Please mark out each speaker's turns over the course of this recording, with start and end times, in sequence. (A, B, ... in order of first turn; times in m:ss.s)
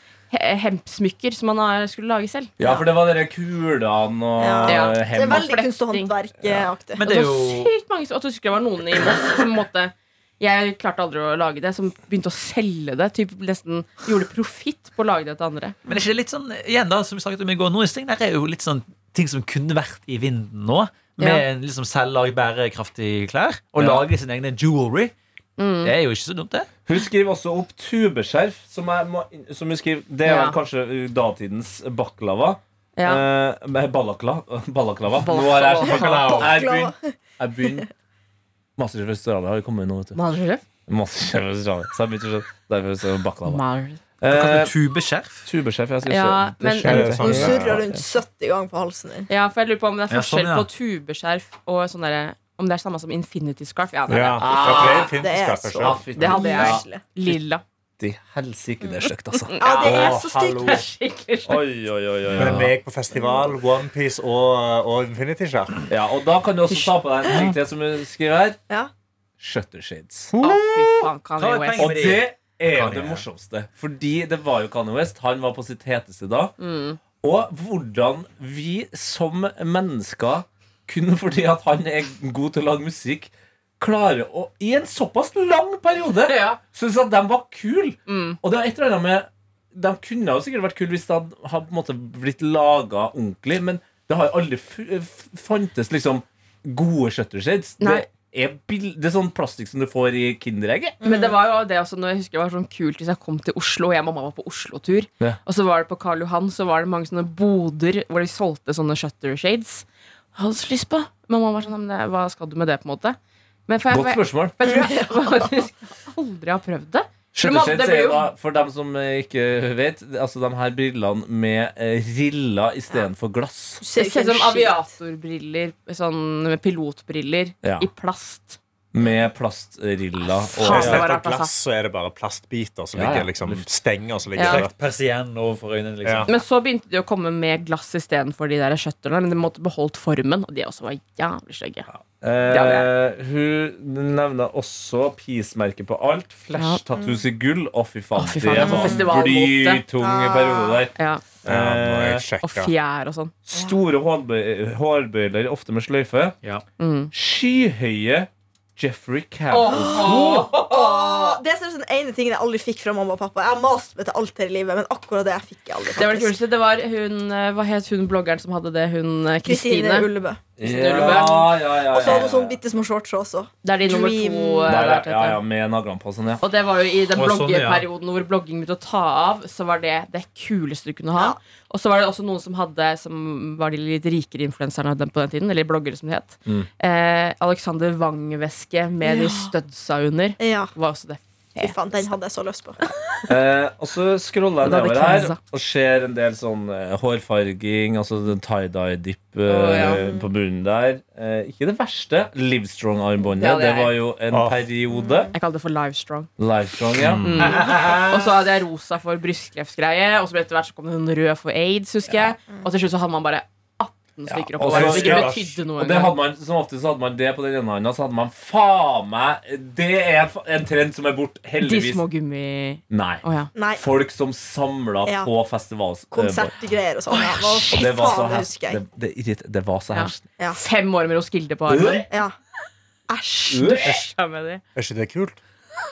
0:00.3-0:02.5 A
0:02.6-0:05.5 B
0:02.6-0:02.8 C
0:04.4-0:07.0 C
0:04.6-0:06.1 A
0:07.0-0:07.7 D
0:07.0-0:15.8 A
0:15.8-0:25.1 D
0:21.2-0:21.4 A
0:23.8-0:24.0 B
0:25.6-0:25.9 A
0:25.8-0:26.7 D
0:26.8-0:37.9 B
0:30.2-0:30.6 A
0:33.0-0:33.2 A
0:35.2-0:36.5 A
0:35.8-0:37.8 C
0:38.8-0:40.2 B
0:40.1-0:40.6 A
0:40.9-0:43.6 B
0:43.4-0:44.0 A
0:44.2-0:44.7 B
0:44.3-0:45.5 D
0:45.4-0:48.0 B
0:46.0-0:47.0 A
0:46.8-0:47.8 E
0:47.2-0:49.3 C
0:49.3-0:55.1 A
0:50.1-0:50.7 D
0:54.1-0:56.2 E
0:54.4-0:57.4 B
0:55.2-0:57.0 C
0:56.2-0:57.6 A
0:58.0-0:59.6 B
0:59.5-1:01.6 A
0:59.6-1:00.8 C
0:59.8-1:00.8 E
1:01.4-1:02.7 B
1:02.3-1:05.9 E
1:02.4-1:02.7 D
1:03.1-1:03.4 C
1:05.9-1:08.6 B
1:09.4-1:10.3 B
1:10.3-1:10.7 E
1:10.4-1:12.1 A
1:11.4-1:13.2 D
1:11.8-1:16.5 B
1:16.6-1:17.0 A
1:17.2-1:41.0 B
1:26.2-1:26.6 A
1:28.1-1:28.4 A
1:37.8-1:38.1 A
1:41.0-1:41.4 C
1:41.0-1:58.3 A
1:53.9-1:54.6 B
1:54.6-1:55.5 C
1:57.3-2:03.8 B
2:03.8-2:04.8 C
2:04.0-2:08.6 A
2:07.6-2:07.9 B
2:08.9-2:11.0 B
2:10.5-2:11.5 A
2:10.7-2:14.7 E
2:10.8-2:11.0 D
2:12.9-2:13.6 B
2:14.3-2:14.6 A
2:14.4-2:16.4 D
2:16.0-2:16.3 E
2:16.2-2:21.9 A
2:21.9-2:30.9 B
2:22.5-2:22.9 A
2:26.5-2:26.8 A
2:28.2-2:29.8 A
2:28.5-2:29.2 C
2:30.0-2:30.8 C
2:30.9-2:31.2 A
2:31.4-2:32.2 B
2:31.4-2:32.7 E
2:32.4-2:33.3 A
2:33.5-2:36.4 B
2:36.8-2:37.1 A
2:37.1-2:41.1 B
2:39.5-2:41.3 A
2:39.7-2:46.3 C
2:46.0-2:50.1 A
2:49.4-2:50.4 C
2:50.6-2:52.6 B
2:50.6-2:51.5 A
2:50.9-2:54.8 C
2:53.6-2:55.4 A
2:54.6-2:56.4 B
2:56.4-3:11.8 A
2:57.1-2:57.8 D
3:09.0-3:09.5 C
3:10.4-3:10.7 C
3:11.6-3:12.8 C
3:13.3-3:25.3 B
3:14.6-3:15.4 A
3:19.4-3:20.0 A
3:19.8-3:20.3 C
3:23.3-3:24.0 A
3:24.3-3:24.6 E
3:24.9-3:25.3 C
3:25.3-3:26.3 A
3:26.4-3:27.5 B
3:27.2-3:36.2 A
3:27.3-3:28.3 D
3:34.3-3:42.0 B
3:34.6-3:35.6 E
3:41.6-3:43.5 A
3:42.9-3:43.2 B
3:43.5-3:43.8 C
3:43.7-3:46.5 B
3:46.1-3:48.8 C
3:47.1-3:47.6 A
3:47.7-3:50.2 B
3:49.9-3:52.1 A
3:51.7-3:52.1 B
3:52.1-3:52.3 C
3:53.1-3:53.9 C
3:53.5-3:54.0 B
3:53.7-3:54.6 A
3:54.8-3:55.4 E